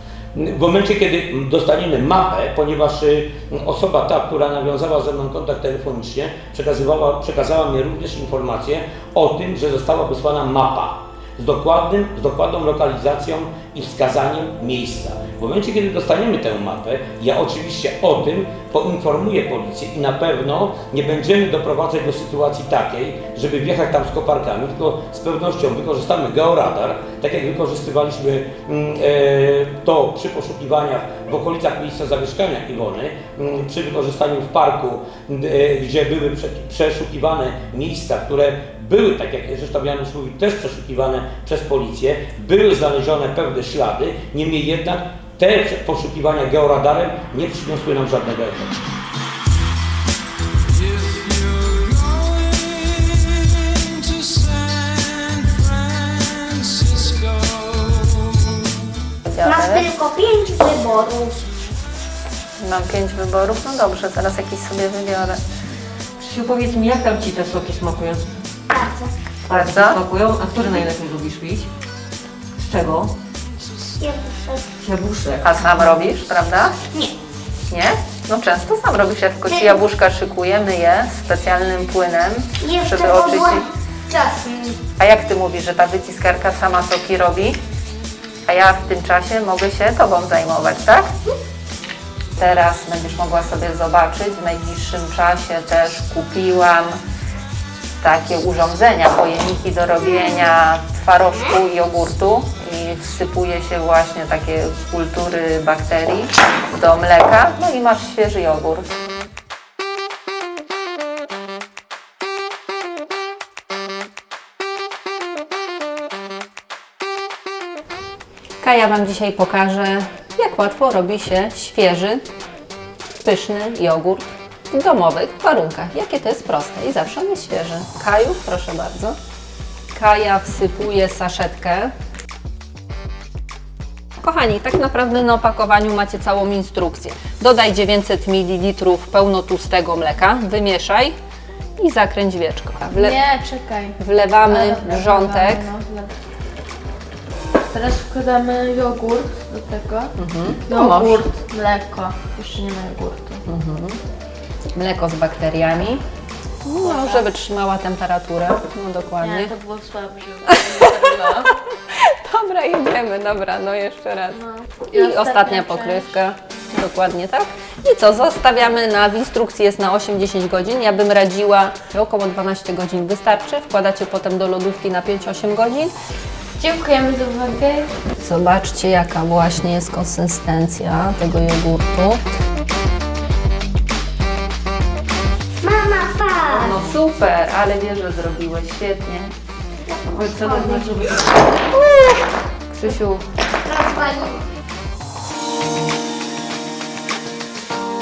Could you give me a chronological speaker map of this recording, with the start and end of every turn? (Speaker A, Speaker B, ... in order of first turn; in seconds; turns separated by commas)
Speaker A: 0.3-48.8, Speaker A: 50.9-53.1, Speaker A: 54.3-55.6, Speaker B: 59.2-59.9, Speaker C: 59.4-61.4, Speaker B: 62.6-65.4, Speaker D: 66.2-68.3, Speaker C: 68.7-69.1, Speaker B: 69.5-70.0, Speaker D: 69.5-71.7, Speaker D: 72.6-73.1, Speaker C: 74.0-74.6, Speaker D: 74.8-76.0, Speaker B: 75.4-76.7, Speaker B: 77.7-83.7, Speaker C: 79.5-79.8, Speaker C: 82.6-84.8, Speaker B: 85.0-87.6, Speaker B: 88.5-91.1, Speaker B: 92.4-97.0, Speaker B: 98.0-109.0, Speaker B: 118.6-122.2, Speaker B: 123.2-129.2, Speaker B: 129.9-131.9, Speaker B: 134.2-141.2, Speaker B: 141.8-143.2, Speaker E: 142.9-146.1, Speaker B: 144.0-145.7, Speaker E: 147.7-150.1, Speaker B: 150.2-151.1, Speaker E: 150.7-153.4, Speaker D: 150.7-151.0, Speaker B: 153.4-154.0, Speaker B: 154.7-156.0, Speaker B: 156.6-159.5, Speaker E: 156.8-157.3, Speaker E: 159.2-161.5, Speaker B: 161.3-164.4, Speaker E: 164.3-166.1, Speaker B: 164.9-175.9, Speaker E: 176.6-177.9, Speaker B: 178.2-182.2, Speaker C: 185.6-186.7, Speaker B: 186.6-189.3, Speaker C: 189.9-190.8, Speaker B: 190.1-191.2, Speaker D: 190.2-190.9, Speaker C: 191.8-192.1, Speaker B: 192.7-193.3, Speaker C: 193.6-194.4